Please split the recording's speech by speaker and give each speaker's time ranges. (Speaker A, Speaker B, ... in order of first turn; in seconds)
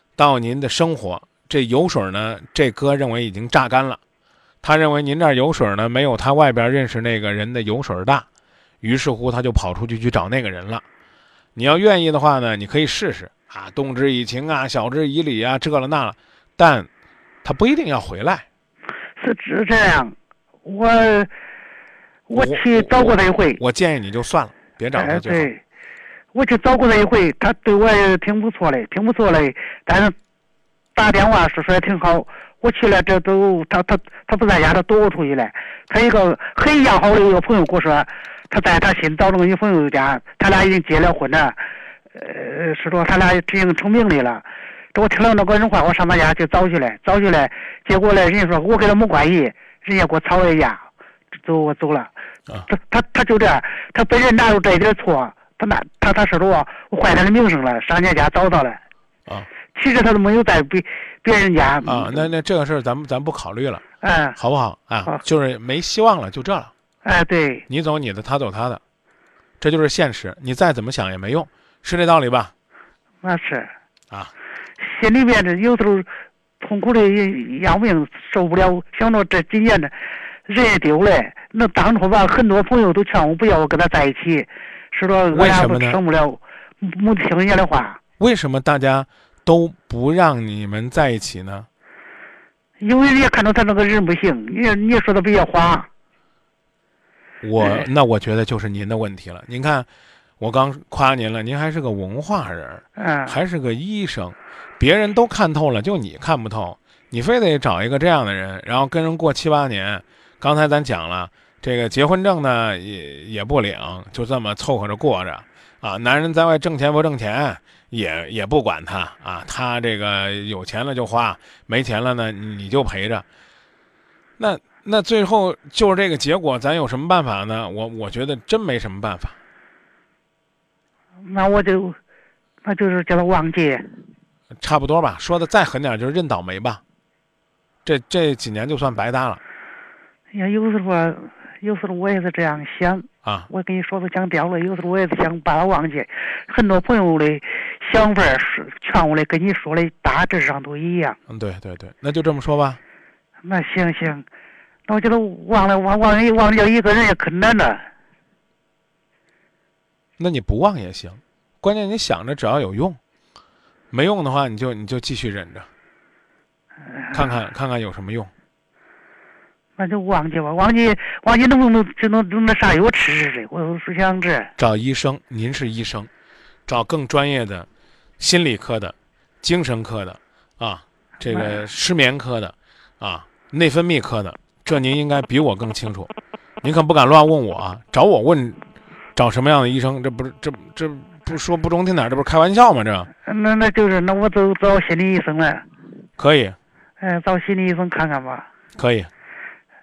Speaker A: 0.2-4.0, 4.6-8.3, 8.8-10.8, 11.6-16.9, 17.4-18.5, 22.3-25.5, 61.8-63.8, 64.4-66.7, 67.7-68.8, 69.6-72.5, 85.3-86.0, 88.2-91.7, 97.4-99.9, 100.4-123.2, 124.4-129.4, 134.6-136.8, 137.8-139.4, 143.2-143.5, 151.3-152.8, 160.2-163.0, 163.9-165.7, 167.1-168.3, 174.6-176.1, 176.7-177.7, 178.2-188.6, 189.2-193.1, 196.2-196.6, 198.8-199.1
Speaker B: 19.2-21.3, 22.3-23.6, 24.9-25.6, 26.3-30.1, 31.0-52.1, 52.7-58.8, 59.7-62.3, 64.0-64.4, 67.0-67.7, 73.2-73.7, 74.8-76.1, 76.6-80.0, 80.5-88.0, 92.8-95.9, 97.6-97.9, 103.0-103.4, 131.3-132.0, 132.6-133.9, 140.3-151.2, 153.4-154.2, 154.9-157.9, 167.0-167.3, 169.8-174.5, 181.3-181.6, 193.3-195.7, 197.0-198.5